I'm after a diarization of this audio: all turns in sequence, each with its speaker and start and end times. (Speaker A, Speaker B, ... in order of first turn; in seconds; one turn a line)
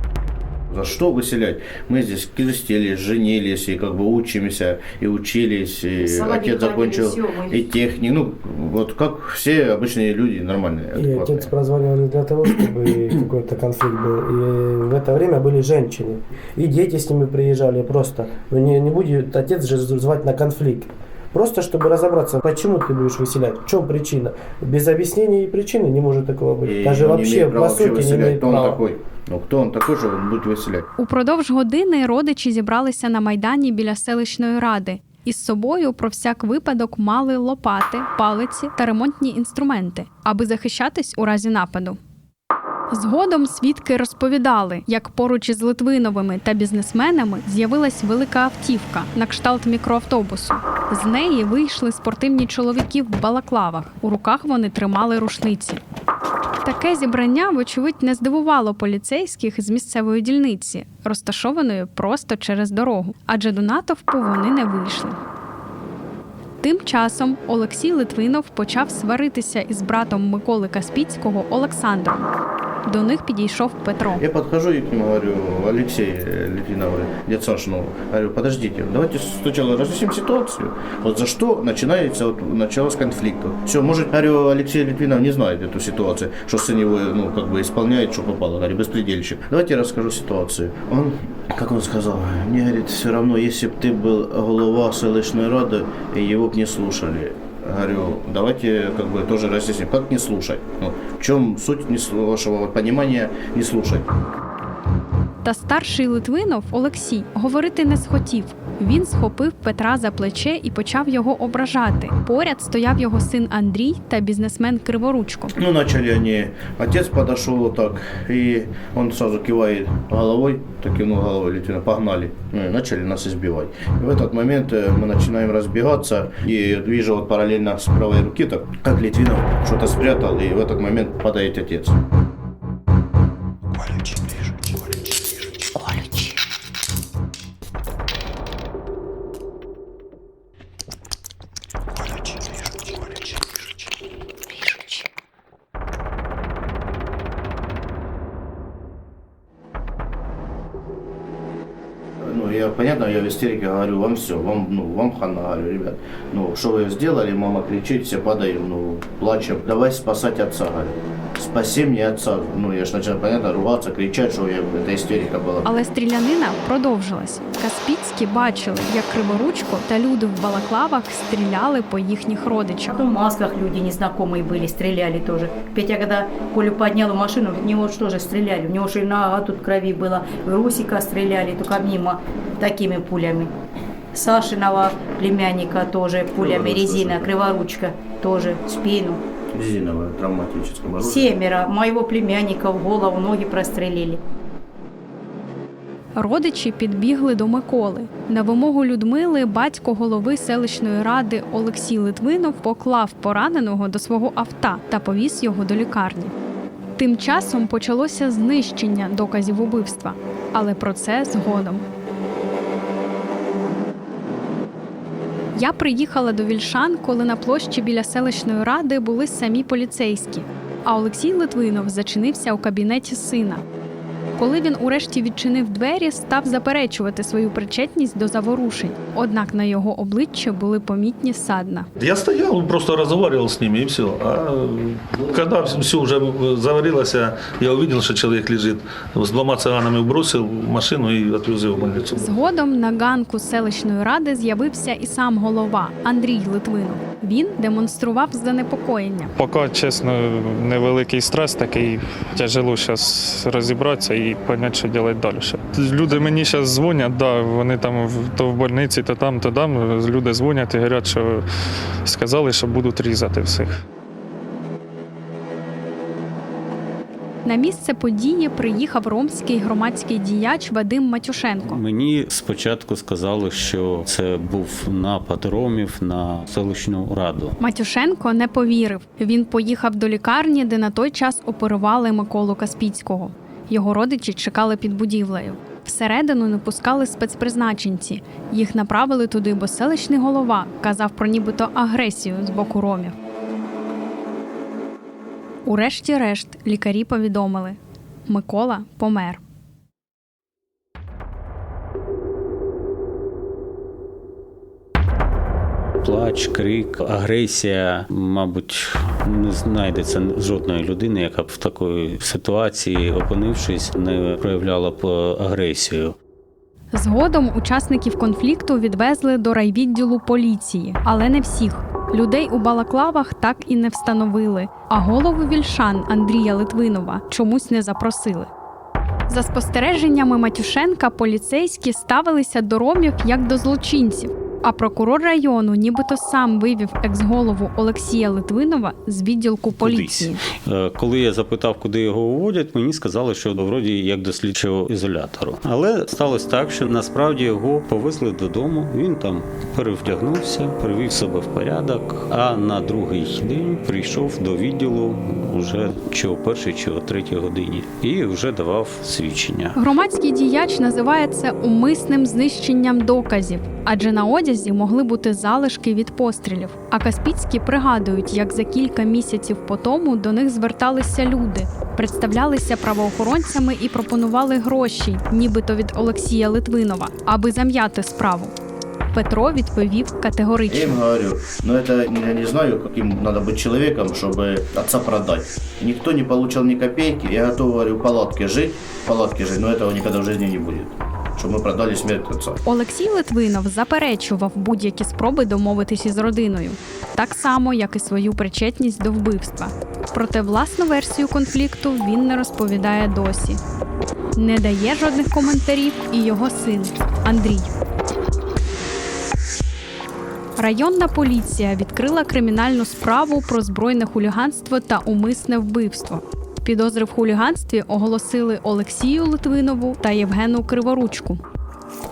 Speaker A: 0.7-11.5
Speaker B: 6.0-7.7
Speaker C: 10.9-28.8
Speaker A: 26.6-30.9
Speaker D: 31.0-42.0
Speaker D: 42.9-55.8
Speaker D: 56.6-65.2
Speaker D: 66.6-72.3
Speaker D: 72.9-74.2
Speaker A: 74.2-104.1
Speaker D: 105.4-115.5
Speaker A: 115.6-132.0
Speaker A: 152.2-165.7
Speaker D: 165.7-173.0
Speaker B: 172.9-183.5
Speaker B: 184.1-189.2
Speaker A: 186.4-187.3
Speaker A: 189.5-191.4
Speaker B: 191.0-194.2
Speaker D: 196.2-206.3
Speaker D: 207.0-211.8
Speaker D: 215.6-223.6
Speaker D: 224.4-231.9
Speaker E: 232.0-242.2
Speaker D: 242.2-249.3
Speaker F: 249.4-261.4
Speaker F: 262.1-263.8
Speaker D: 267.4-271.8
Speaker G: 271.6-277.6
Speaker D: 277.6-293.1
Speaker D: 295.7-299.4
Speaker G: 306.0-316.2
Speaker D: 316.9-328.5
Speaker D: 329.3-340.4
Speaker G: 339.8-359.8
Speaker D: 359.8-378.5
Speaker D: 379.1-381.0
Speaker A: 380.7-392.6
Speaker D: 392.6-403.6
Speaker D: 404.4-407.7
Speaker D: 410.6-421.4